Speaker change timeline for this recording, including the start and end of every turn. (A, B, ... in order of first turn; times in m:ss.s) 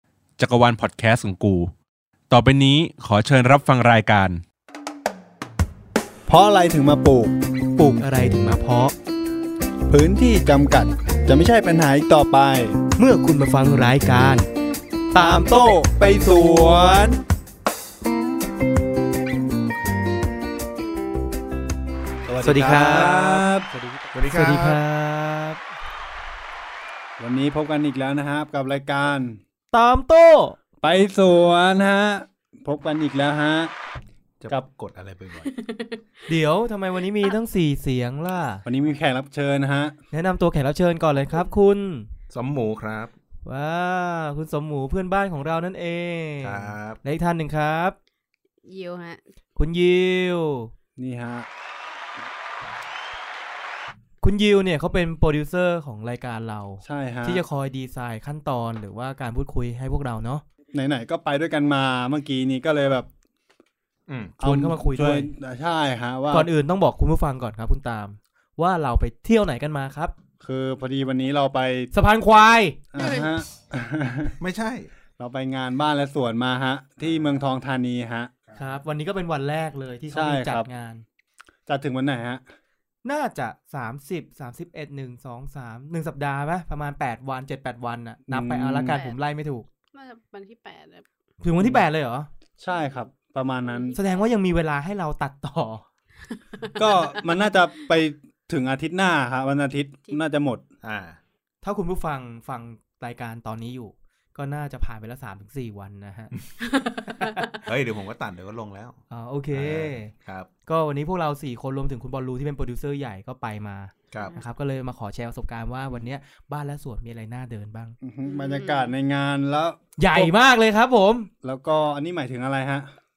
0:00.4-0:01.7 A
0:02.3-0:04.4 A
0:06.3-0:08.0 B
0:07.8-0:09.0 C
0:09.9-0:12.8 B
0:13.0-0:14.5 C
0:15.1-0:15.8 C
0:15.2-0:17.2 B
0:16.5-0:17.0 C
0:22.3-0:23.7 B
0:22.4-0:25.6 C
0:24.1-0:24.8 D
0:27.2-0:29.4 B
0:29.7-0:30.6 C
0:30.8-0:33.7 B
0:34.4-0:35.5 D
0:35.5-0:36.0 E
0:36.3-0:38.6 C
0:38.7-0:40.0 B
0:40.1-0:42.1 C
0:42.3-0:43.1 D
0:43.4-0:48.0 C
0:46.4-0:47.0 D
0:48.6-0:49.2 E
0:49.6-0:50.7 C
0:51.0-0:51.5 B
0:54.2-1:00.4 C
0:56.8-0:57.4 B
1:00.7-1:03.1 B
1:04.1-1:04.3 D
1:04.4-1:06.5 B
1:04.4-1:05.3 C
1:06.3-1:10.1 C
1:10.4-1:11.9 B
1:11.9-1:12.8 C
1:12.9-1:14.4 B
1:13.0-1:13.3 E
1:14.4-1:14.9 D
1:15.2-1:18.4 B
1:18.5-1:21.0 C
1:20.1-1:20.7 B
1:21.7-1:22.4 B
1:23.0-1:29.7 C
1:28.3-1:29.0 B
1:28.9-1:29.2 E
1:29.9-1:31.0 E
1:31.4-1:32.3 C
1:32.6-1:34.0 B
1:32.7-1:33.0 E
1:33.6-1:34.2 E
1:34.0-1:35.8 C
1:36.8-1:40.6 B
1:40.8-1:41.2 D
1:41.6-1:46.3 C
1:46.7-1:47.3 E
1:47.1-1:47.5 C
1:47.6-1:49.0 D
1:49.1-1:50.1 C
1:49.5-1:50.5 D
1:50.7-1:58.0 C
1:54.1-1:54.4 D
1:58.0-2:00.3 B
1:58.2-1:58.9 E
2:00.0-2:01.3 C
2:01.4-2:02.9 B